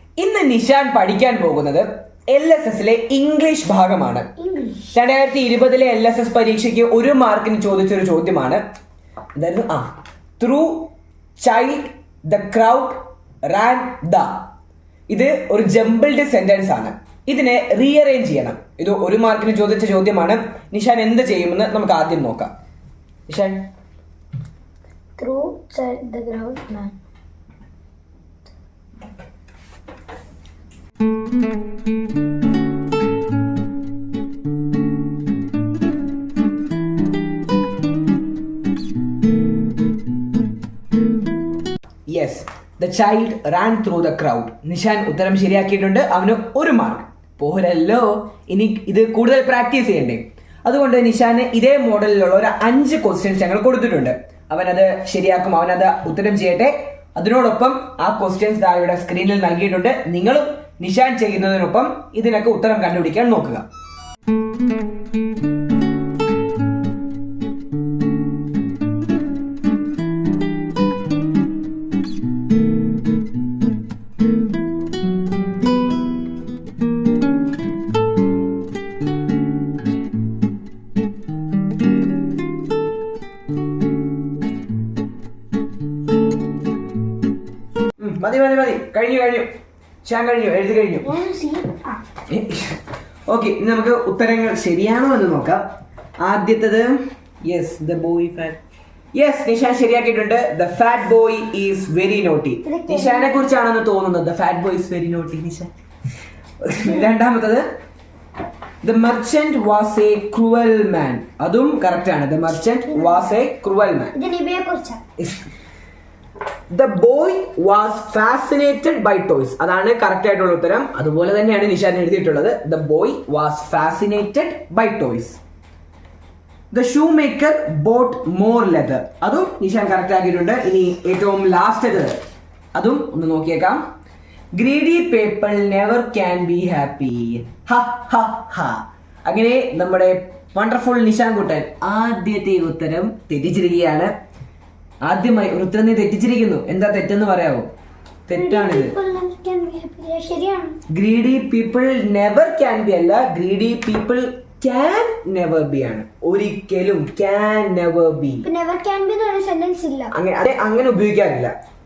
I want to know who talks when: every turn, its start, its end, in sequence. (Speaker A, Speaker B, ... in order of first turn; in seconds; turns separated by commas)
Speaker A: 0.2-4.3, Speaker B: 4.4-4.9, Speaker A: 4.9-8.6, Speaker A: 9.4-14.4, Speaker A: 15.1-22.5, Speaker A: 23.3-23.6, Speaker B: 25.2-26.9, Speaker A: 42.1-63.6, Speaker A: 88.0-89.5, Speaker A: 90.0-91.1, Speaker B: 91.0-92.0, Speaker A: 92.3-92.8, Speaker A: 93.3-95.7, Speaker A: 96.2-98.6, Speaker A: 99.1-105.7, Speaker B: 102.6-103.4, Speaker A: 106.6-107.7, Speaker A: 108.8-114.2, Speaker B: 114.2-115.0, Speaker A: 115.2-115.5, Speaker A: 116.7-125.4, Speaker A: 126.7-132.2, Speaker A: 132.8-133.8, Speaker A: 134.6-144.1, Speaker A: 145.1-147.7, Speaker A: 148.3-148.9, Speaker B: 148.3-150.8, Speaker A: 150.9-158.4, Speaker B: 158.4-160.1, Speaker A: 160.1-161.5